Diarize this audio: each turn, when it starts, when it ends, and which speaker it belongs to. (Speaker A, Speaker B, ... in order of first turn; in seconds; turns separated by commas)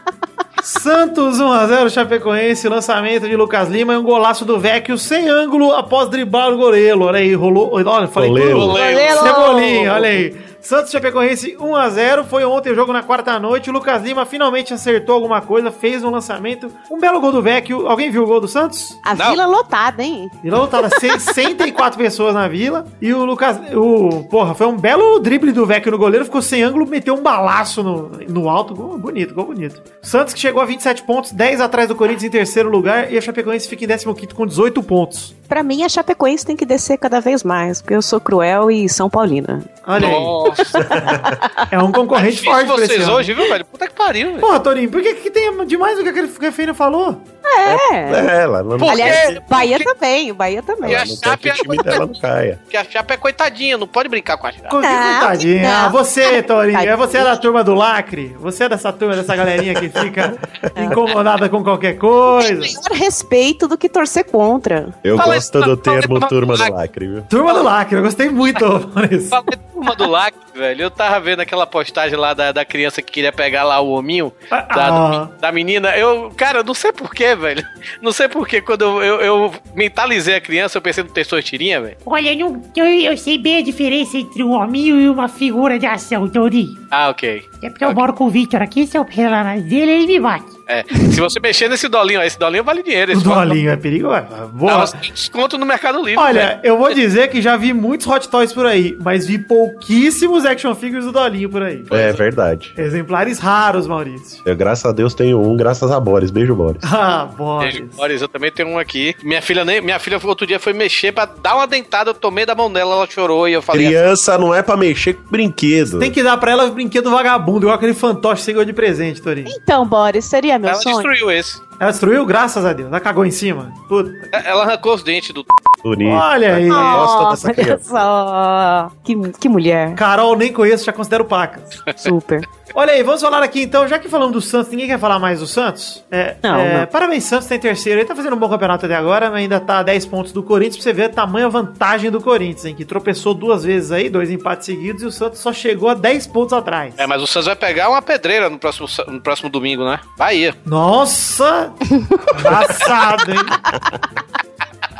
Speaker A: 0.6-19.0, Speaker B: 8.2-8.8, Speaker C: 8.5-9.8, Speaker D: 8.8-9.8, Speaker D: 19.0-21.0, Speaker A: 20.4-35.3, Speaker D: 35.5-39.8, Speaker A: 39.9-43.3, Speaker C: 40.0-40.8, Speaker D: 40.5-41.7, Speaker C: 42.1-44.5, Speaker A: 44.4-47.2, Speaker D: 47.5-48.3, Speaker B: 47.6-49.4, Speaker C: 48.8-49.9, Speaker D: 48.8-51.1, Speaker B: 50.8-52.6, Speaker C: 50.9-52.0, Speaker C: 52.7-54.7, Speaker A: 54.7-62.8, Speaker D: 54.8-57.4, Speaker B: 59.8-60.4, Speaker D: 62.3-65.0, Speaker B: 65.0-67.3, Speaker C: 65.2-66.7, Speaker A: 67.3-69.4, Speaker C: 69.3-82.0, Speaker A: 74.5-75.3, Speaker E: 82.0-86.8, Speaker C: 86.9-88.0, Speaker E: 87.6-90.5, Speaker C: 90.7-93.6, Speaker A: 93.1-94.9, Speaker C: 94.7-97.0, Speaker A: 96.2-101.9, Speaker C: 101.9-102.2, Speaker B: 101.9-102.8, Speaker A: 102.8-104.4, Speaker B: 104.5-106.8, Speaker A: 106.8-108.0, Speaker C: 107.6-114.0, Speaker B: 113.7-116.2, Speaker A: 115.9-119.5, Speaker D: 119.5-121.1, Speaker C: 120.7-121.6, Speaker A: 121.8-124.4, Speaker C: 124.3-125.5, Speaker B: 125.8-128.1, Speaker A: 126.0-127.1, Speaker D: 126.7-130.0, Speaker A: 130.0-131.8, Speaker D: 132.0-132.5, Speaker A: 132.7-147.1, Speaker D: 136.4-136.9, Speaker C: 147.0-150.6, Speaker A: 150.7-153.6